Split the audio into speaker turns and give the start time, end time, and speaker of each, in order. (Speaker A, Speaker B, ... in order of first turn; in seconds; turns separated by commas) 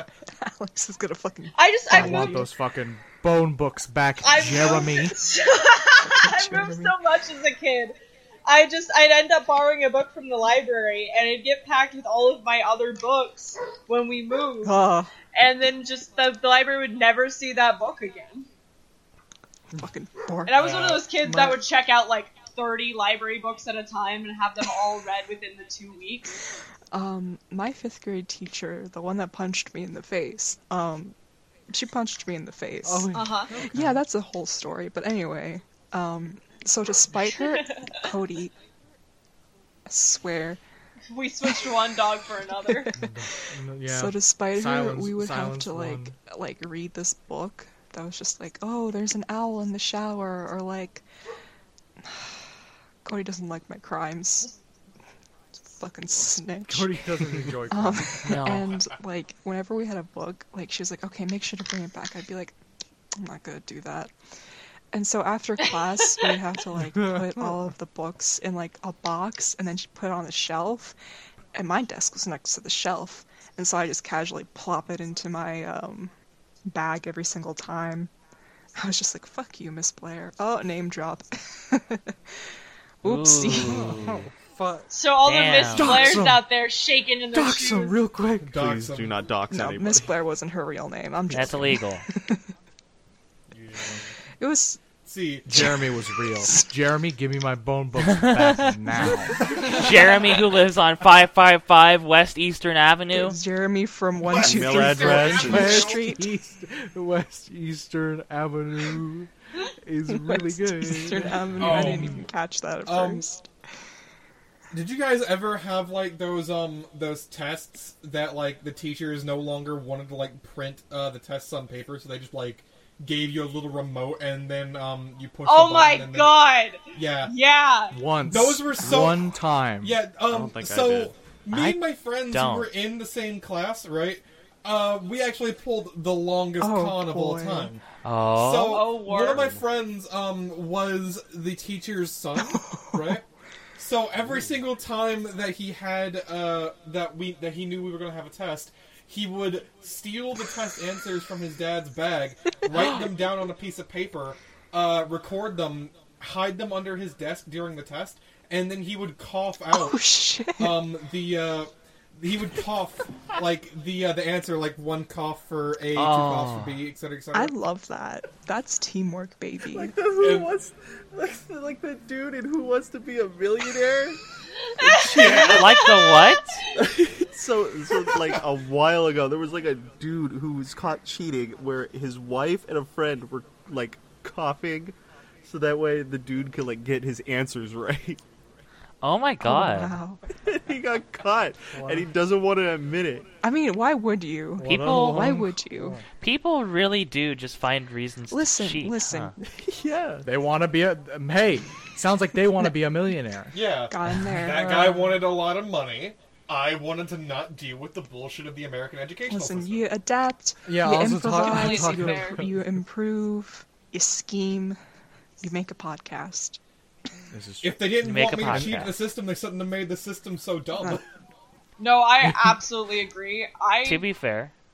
Speaker A: 0.4-2.5, Speaker B: 1.6-2.5, Speaker C: 1.9-5.2, Speaker B: 4.2-7.9, Speaker A: 6.0-7.0, Speaker B: 8.4-18.5, Speaker A: 14.6-15.1, Speaker A: 19.8-20.6, Speaker B: 20.4-26.4, Speaker D: 20.6-21.1, Speaker C: 21.2-21.6, Speaker A: 26.9-31.1, Speaker A: 31.7-38.5, Speaker C: 32.8-34.0, Speaker B: 33.1-33.5, Speaker B: 37.2-38.0, Speaker A: 39.9-40.6, Speaker B: 41.1-42.9, Speaker A: 41.4-41.7, Speaker A: 42.7-43.1, Speaker C: 43.0-46.1, Speaker A: 43.8-51.0, Speaker A: 52.1-52.3, Speaker A: 53.0-54.5, Speaker A: 55.7-57.0, Speaker C: 56.7-58.4, Speaker A: 57.7-62.6, Speaker E: 58.2-58.7, Speaker A: 63.1-64.1, Speaker A: 64.9-70.9, Speaker C: 66.8-67.6, Speaker A: 71.5-76.1, Speaker A: 76.7-78.1, Speaker A: 78.8-82.2, Speaker A: 83.0-84.0, Speaker E: 83.0-84.2, Speaker C: 83.6-84.9, Speaker B: 84.9-88.0, Speaker E: 85.2-86.2, Speaker C: 85.7-86.4, Speaker C: 87.3-88.6, Speaker D: 88.4-89.2, Speaker F: 88.5-90.2, Speaker A: 89.5-92.5, Speaker E: 91.3-92.0, Speaker D: 93.5-94.1, Speaker A: 94.4-94.8, Speaker D: 95.0-95.7, Speaker C: 95.5-99.4, Speaker E: 98.1-98.5, Speaker E: 99.4-103.4, Speaker A: 103.1-106.2, Speaker D: 104.3-106.0, Speaker F: 104.3-105.9, Speaker C: 105.3-109.3, Speaker C: 109.8-112.2, Speaker A: 110.1-113.5, Speaker D: 111.6-112.3, Speaker D: 112.8-113.3, Speaker D: 114.7-126.4, Speaker B: 125.4-128.0, Speaker D: 126.9-127.3, Speaker C: 127.9-130.0, Speaker D: 128.2-143.2, Speaker F: 130.2-131.1, Speaker E: 131.5-132.7, Speaker A: 136.6-137.7, Speaker E: 138.0-138.9, Speaker B: 138.7-139.5, Speaker A: 142.4-143.2, Speaker D: 143.8-160.0, Speaker A: 159.7-160.8, Speaker D: 160.6-167.5, Speaker E: 165.9-166.8, Speaker A: 167.3-169.9, Speaker F: 169.7-174.2, Speaker D: 170.2-170.5, Speaker B: 174.7-176.6, Speaker F: 174.8-175.8, Speaker D: 175.1-175.6, Speaker E: 175.4-176.6, Speaker F: 176.8-188.2, Speaker E: 189.0-190.0, Speaker A: 189.4-190.2, Speaker F: 190.4-193.2, Speaker C: 191.7-192.1, Speaker A: 193.4-196.0, Speaker C: 194.6-196.0, Speaker E: 194.6-195.4, Speaker E: 196.2-199.3, Speaker A: 198.3-199.3, Speaker F: 199.5-200.3, Speaker C: 200.2-203.6, Speaker D: 203.5-209.9, Speaker A: 203.9-205.1, Speaker A: 209.3-214.8, Speaker C: 210.7-212.7, Speaker B: 211.3-212.4, Speaker A: 215.4-216.6, Speaker C: 217.3-218.8, Speaker D: 217.6-221.1, Speaker E: 218.0-219.0, Speaker B: 221.8-224.1, Speaker E: 223.8-224.5